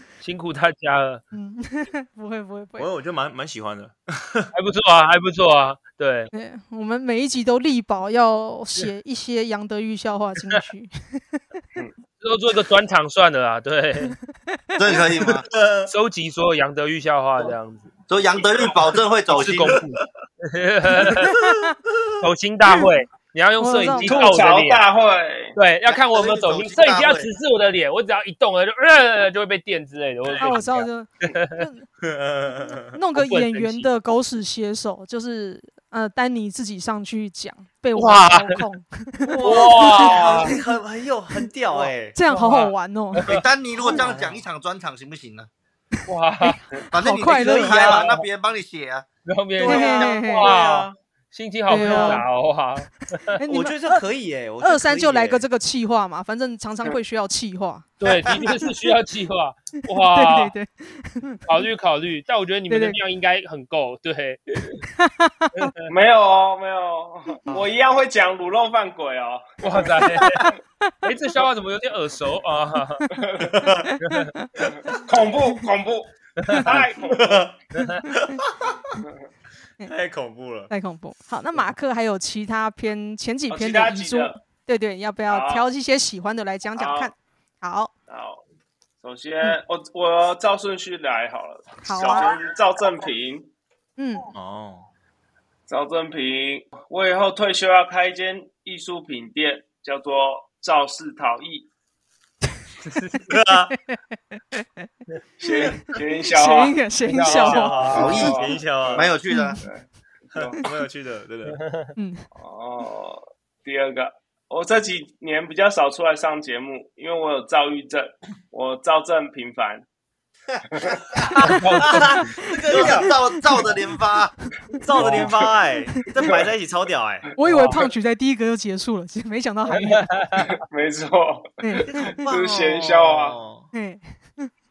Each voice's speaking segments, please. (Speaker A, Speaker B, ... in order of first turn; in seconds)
Speaker A: 0.2-1.2, 4.5-6.3, 12.2-14.2, 15.9-17.9, 19.3-21.3, 22.2-24.8, 25.5-31.6, 33.1-33.9, 38.0-38.6, 39.4-40.5, 42.3-43.4, 46.1-46.6, 49.2-53.4, 58.0-60.5, 61.5-64.8, 65.6-65.9, 69.6-73.1, 74.0-74.3, 102.8-103.3, 107.0-108.3, 111.5-111.9, 121.3-122.4, 125.0-125.3, 127.4-127.8, 129.7-130.6
Speaker B: 1.3-2.9, 6.3-11.4, 21.2-21.7, 23.6-24.3, 30.4-31.9, 32.9-40.6, 42.1-43.2, 46.4-48.0, 49.6-50.5, 51.7-52.3, 53.4-54.0, 54.6-57.9, 60.0-61.6, 62.7-63.0, 64.9-65.7, 70.0-70.9, 73.1-74.9, 78.0-78.4, 80.7-87.9, 91.8-92.3, 94.0-94.2, 103.9-104.9, 105.4-108.4, 109.3-109.6, 112.0-112.2, 121.3-123.7, 124.7-125.2, 127.4-130.1, 131.6-132.1, 133.7-134.5
Speaker C: 2.8-4.5, 15.2-15.9, 30.3-30.5, 32.0-33.0, 39.3-42.2, 43.7-44.4, 47.3-48.2, 49.6-50.9, 51.8-52.2, 53.5-55.5, 73.4-73.9, 76.7-77.5, 78.1-78.7, 79.8-80.7, 94.3-94.9, 103.3-103.8, 107.2-109.1, 110.3-111.6, 121.8-123.1, 124.8-127.3, 131.9-133.7
Speaker D: 14.8-15.4, 18.1-19.8, 25.9-27.3, 43.3-45.5, 46.9-49.1, 58.1-58.4, 107.9-108.4, 108.9-109.6, 120.5-121.2, 122.7-124.3
Speaker E: 18.3-18.7, 23.8-25.5, 65.9-69.9, 73.1-73.6, 74.7-77.6, 83.5-84.4, 85.3-85.6, 86.8-87.1, 88.1-88.4, 89.0-93.5, 95.7-101.7, 105.4-106.8, 107.9-110.6, 112.3-119.8, 120.7-121.0, 130.5-133.4